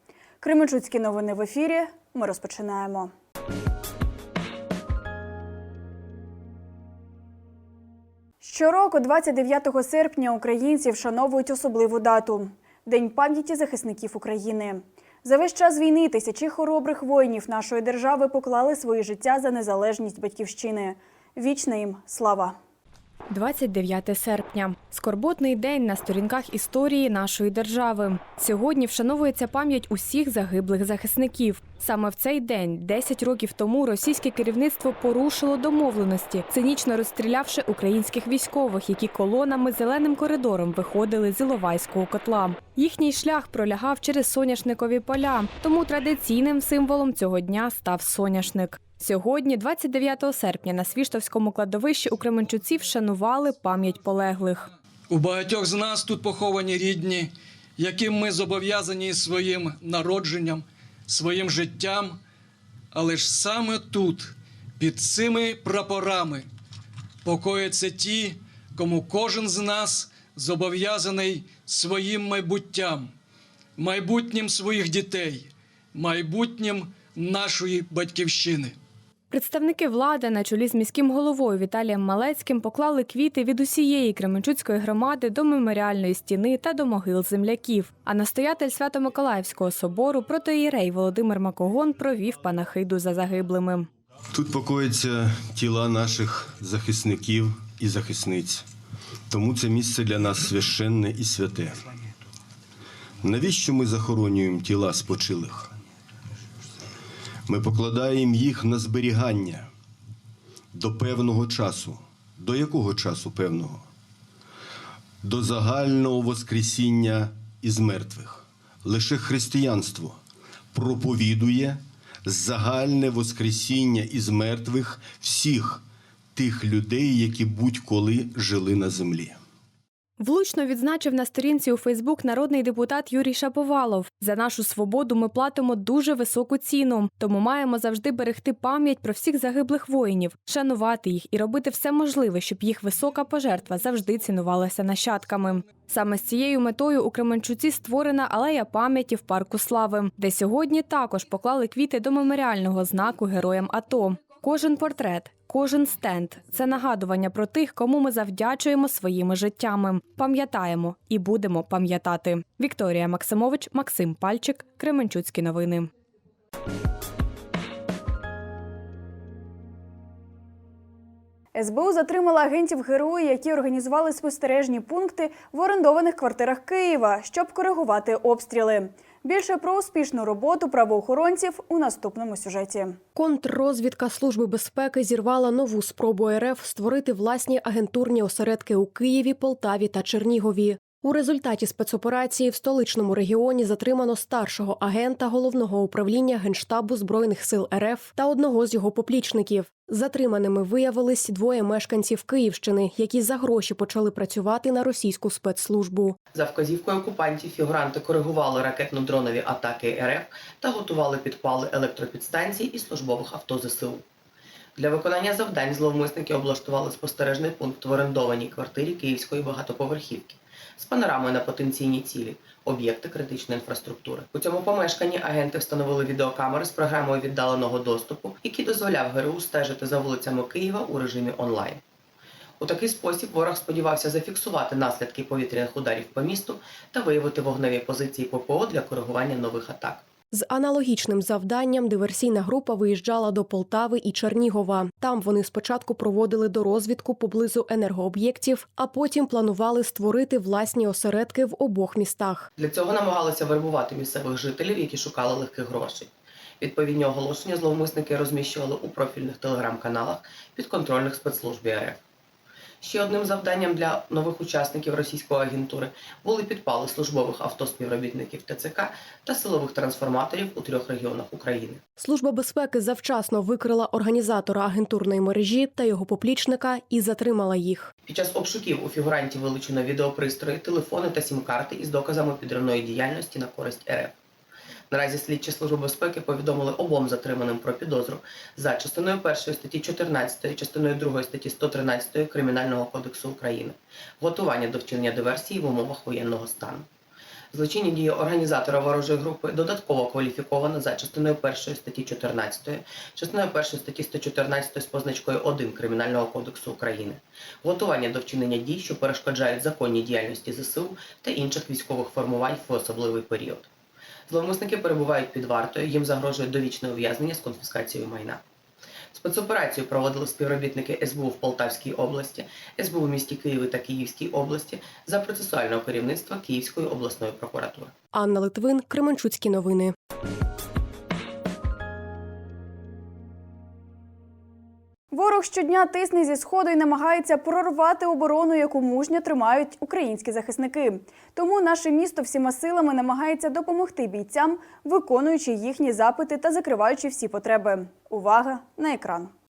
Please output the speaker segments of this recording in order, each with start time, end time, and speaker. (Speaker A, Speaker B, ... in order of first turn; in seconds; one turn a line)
Speaker A: 0.4-3.1
Speaker A: 8.4-22.6
Speaker B: 23.3-54.7
Speaker C: 55.1-62.2
Speaker C: 62.9-66.5
Speaker C: 67.2-73.1
Speaker C: 73.8-78.8
Speaker B: 79.3-93.9
Speaker D: 94.3-98.6
Speaker D: 99.3-101.8
Speaker D: 103.2-105.7
Speaker D: 107.5-109.7
Speaker D: 110.7-113.8
Speaker D: 115.2-120.2
Speaker D: 120.7-125.8
Speaker D: 126.3-129.4
Speaker B: 130.2-165.9
Speaker A: 171.5-183.0
Speaker E: 183.1-206.2
Speaker F: 206.3-214.0
Speaker F: 214.8-231.8
Speaker F: 232.6-240.0
Speaker E: 240.3-252.5
Speaker F: 252.6-262.0
Speaker F: 262.8-271.8
Speaker E: 272.0-277.9
Speaker F: 278.1-284.1
Speaker F: 284.9-296.9
Speaker F: 297.5-313.7
Speaker F: 314.3-318.4
Speaker F: 319.1-327.9
Speaker E: 328.1-329.9
Speaker A: 335.1-349.3